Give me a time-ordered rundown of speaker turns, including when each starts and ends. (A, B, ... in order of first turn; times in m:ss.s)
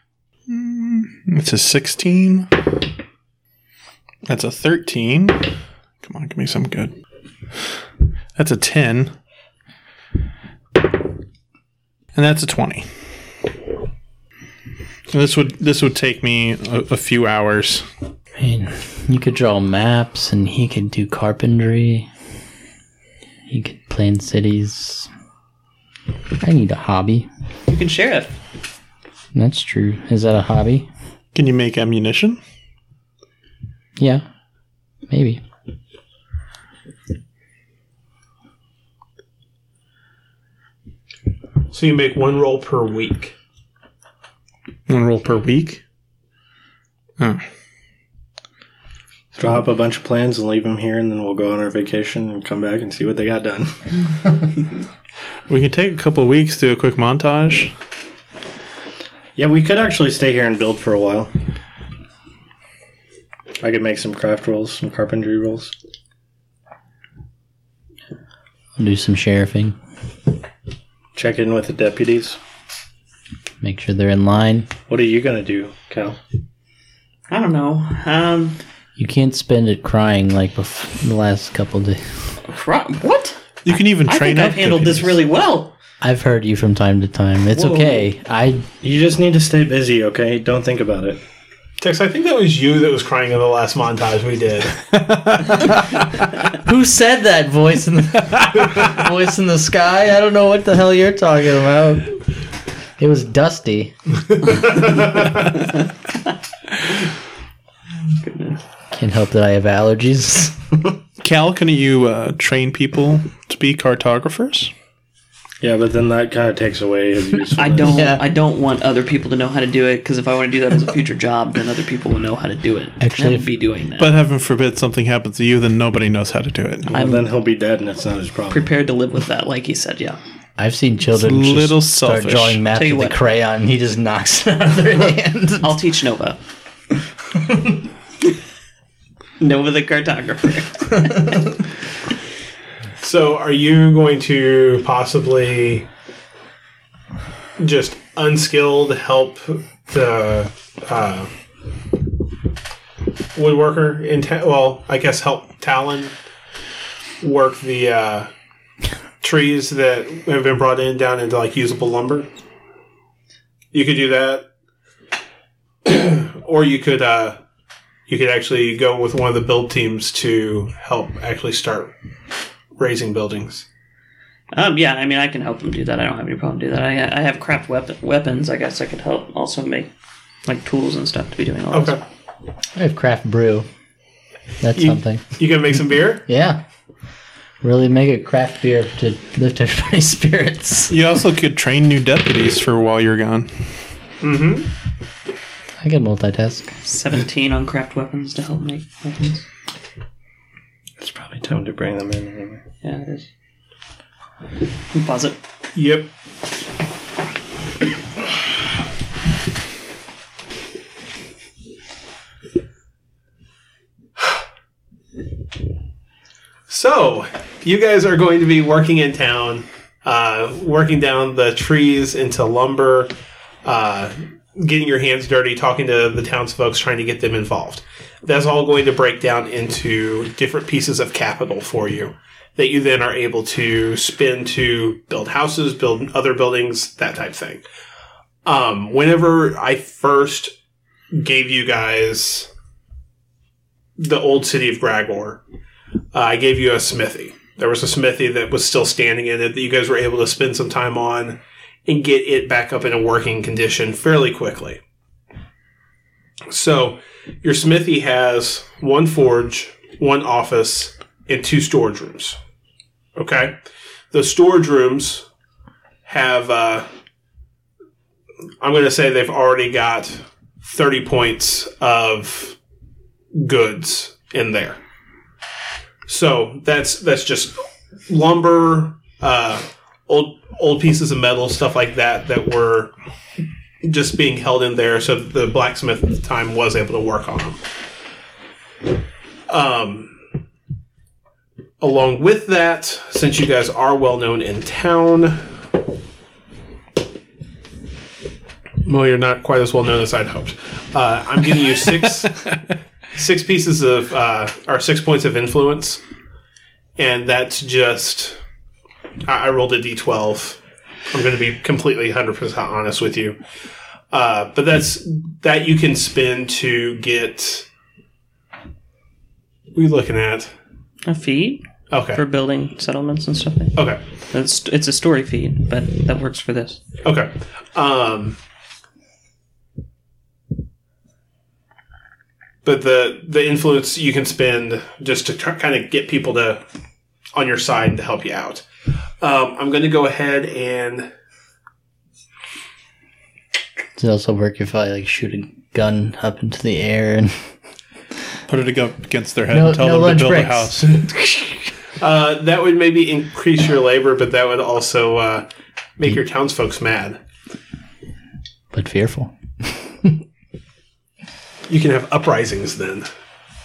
0:00.5-0:02.5 A
0:04.3-0:05.5 A
0:06.0-0:06.9 A
0:08.4-0:09.1 A
0:12.1-0:12.8 A
0:15.1-0:17.8 A
0:18.4-0:22.1 B
0:23.5-0:25.1 B
0:26.4-0:27.3 B
0:27.7-0:28.4 C
0:29.3-0:30.9 B
0:31.3-0:32.4 A
0:34.0-0:34.2 B
0:35.1-0:35.4 B
0:41.7-0:43.3 D
0:44.9-0:45.8 A
0:47.2-0:47.4 A
0:49.3-0:53.8 E
0:55.5-0:57.7 A
0:59.4-1:01.3 E
1:03.6-1:05.7 E
1:08.8-1:09.8 B
1:11.1-1:12.4 E
1:13.6-1:14.7 B
1:14.9-1:16.2 E
1:17.3-1:18.6 C
1:19.0-1:22.0 B
1:22.5-1:23.4 C
1:23.6-1:25.2 A
1:24.0-1:25.7 C
1:26.0-1:28.6 B
1:27.5-1:28.0 C
1:28.8-1:31.2 E
1:31.8-1:34.7 D
1:34.9-1:35.5 A
1:36.6-1:42.2 B
1:43.0-1:43.9 B
1:44.3-1:45.4 D
1:48.2-1:48.6 C
1:48.9-1:50.6 B
1:51.2-1:54.7 A
1:55.6-1:58.0 E
1:57.6-2:04.1 C
1:57.8-1:58.2 B
2:03.0-2:03.5 B
2:04.0-2:06.9 A
2:06.9-2:07.3 C
2:06.9-2:08.7 E
2:08.5-2:10.2 C
2:10.6-2:15.8 B
2:11.1-2:12.6 A
2:12.7-2:13.2 C
2:15.6-2:16.4 C
2:17.5-2:17.8 B
2:19.4-2:21.4 C
2:23.0-2:25.9 D
2:27.6-2:31.3 D
2:33.3-2:36.1 D
2:37.2-2:38.3 D
2:39.2-2:42.3 D
2:43.7-2:44.4 D
2:45.8-2:47.4 D
2:48.1-2:51.9 D
2:52.8-2:53.6 D
2:54.5-2:59.9 C
3:00.4-3:02.0 C
3:01.7-3:02.0 D
3:02.8-3:03.7 B
3:04.6-3:05.4 B
3:04.7-3:06.2 D
3:06.3-3:06.6 B
3:07.6-3:11.0 B
3:10.9-3:13.5 A
3:14.2-3:14.7 D
3:15.8-3:16.7 B
3:16.8-3:19.4 C
3:21.0-3:22.6 E
3:22.8-3:23.3 C
3:24.9-3:25.4 C
3:25.7-3:26.1 D
3:36.7-3:43.1 D
3:43.6-3:57.6 D
3:58.4-4:00.5 D
4:01.1-4:02.5 D
4:04.0-4:05.4 D
4:06.1-4:14.8 D
4:16.5-4:22.4 D
4:23.2-4:23.6 D
4:24.1-4:25.3 D
4:26.0-4:26.9 D
4:28.6-4:32.6 D
4:33.3-4:34.8 D
4:36.1-4:42.9 D
4:43.8-4:47.6 D
4:49.5-4:50.2 D
4:51.8-4:55.4 D
4:58.8-5:02.4 D
5:03.1-5:06.0 D
5:07.0-5:08.4 D
5:09.2-5:10.6 D
5:11.1-5:13.4 D
5:14.1-5:17.7 D
5:19.7-5:20.5 D
5:21.0-5:26.8 C
5:21.9-5:22.2 D
5:23.7-5:24.0 D
5:27.0-5:28.4 D
5:32.6-5:36.6 D
5:37.3-5:38.6 D
5:39.2-5:41.1 D
5:44.0-5:47.4 B
5:48.5-5:50.9 A
5:49.5-5:51.6 B
5:52.0-5:57.2 D
5:58.7-6:00.2 B
6:01.7-6:03.1 D